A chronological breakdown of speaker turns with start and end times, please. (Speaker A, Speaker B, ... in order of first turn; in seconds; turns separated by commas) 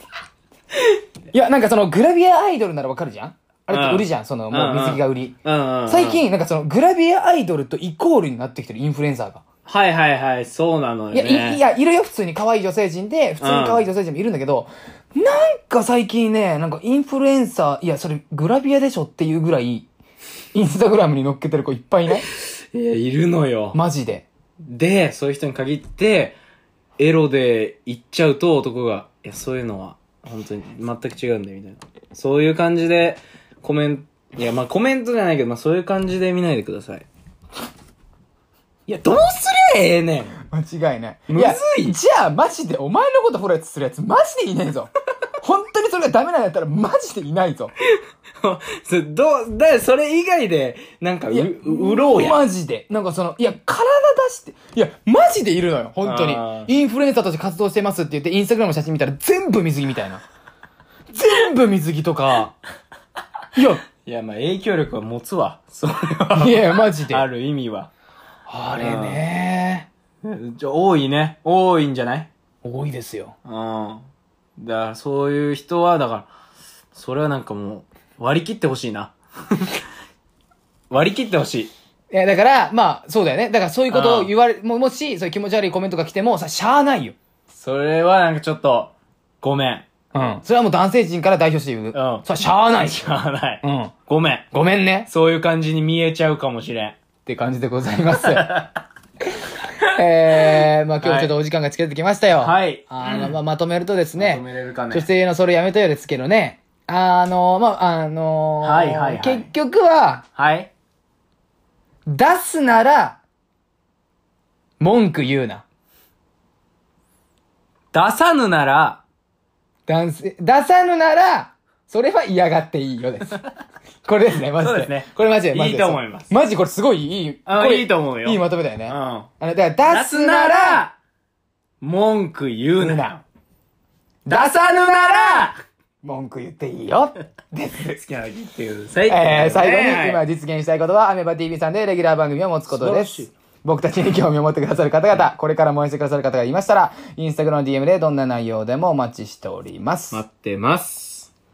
Speaker A: 1.3-9.4, Speaker B: 3.7-6.2, Speaker B: 9.7-11.6, Speaker A: 11.1-19.9, Speaker B: 13.4-13.9, Speaker A: 20.5-22.2, Speaker B: 22.3-23.8, Speaker A: 23.7-24.3, Speaker B: 24.7-26.4, Speaker B: 27.0-37.0, Speaker B: 38.9-40.4, Speaker A: 40.5-44.9, Speaker B: 41.3-42.0, Speaker A: 45.4-47.7, Speaker B: 48.4-52.4, Speaker A: 51.3-60.2, Speaker B: 56.0-56.7, Speaker A: 61.1-62.5, Speaker A: 63.5-63.8, Speaker B: 64.0-67.9, Speaker A: 66.3-67.3, Speaker A: 68.5-69.9, Speaker B: 68.7-69.2, Speaker B: 70.2-72.3, Speaker A: 72.6-73.3, Speaker B: 73.4-74.0, Speaker B: 74.6-76.3, Speaker B: 76.9-79.7, Speaker B: 80.9-81.7, Speaker A: 82.1-87.2, Speaker B: 83.9-84.3, Speaker B: 87.5-89.9, Speaker A: 90.1-93.0, Speaker B: 91.9-92.3, Speaker B: 92.8-94.5, Speaker A: 93.6-93.9, Speaker A: 94.5-95.1, Speaker B: 95.1-97.0, Speaker A: 97.2-98.5, Speaker B: 98.1-98.8, Speaker A: 99.9-110.2, Speaker B: 100.3-101.3, Speaker B: 102.3-103.4, Speaker B: 104.2-105.1, Speaker B: 108.6-109.5, Speaker B: 110.3-110.7, Speaker A: 112.1-113.2, Speaker A: 114.8-115.6, Speaker B: 117.9-119.0, Speaker A: 119.9-123.4, Speaker A: 124.0-130.9, Speaker B: 124.5-126.3, Speaker B: 127.5-129.3, Speaker B: 129.9-130.9, Speaker B: 131.8-133.2, Speaker A: 132.8-133.1, Speaker A: 134.2-138.0, Speaker B: 134.3-135.6, Speaker B: 137.9-140.2, Speaker A: 139.1-150.2, Speaker B: 142.7-143.3, Speaker B: 150.1-151.3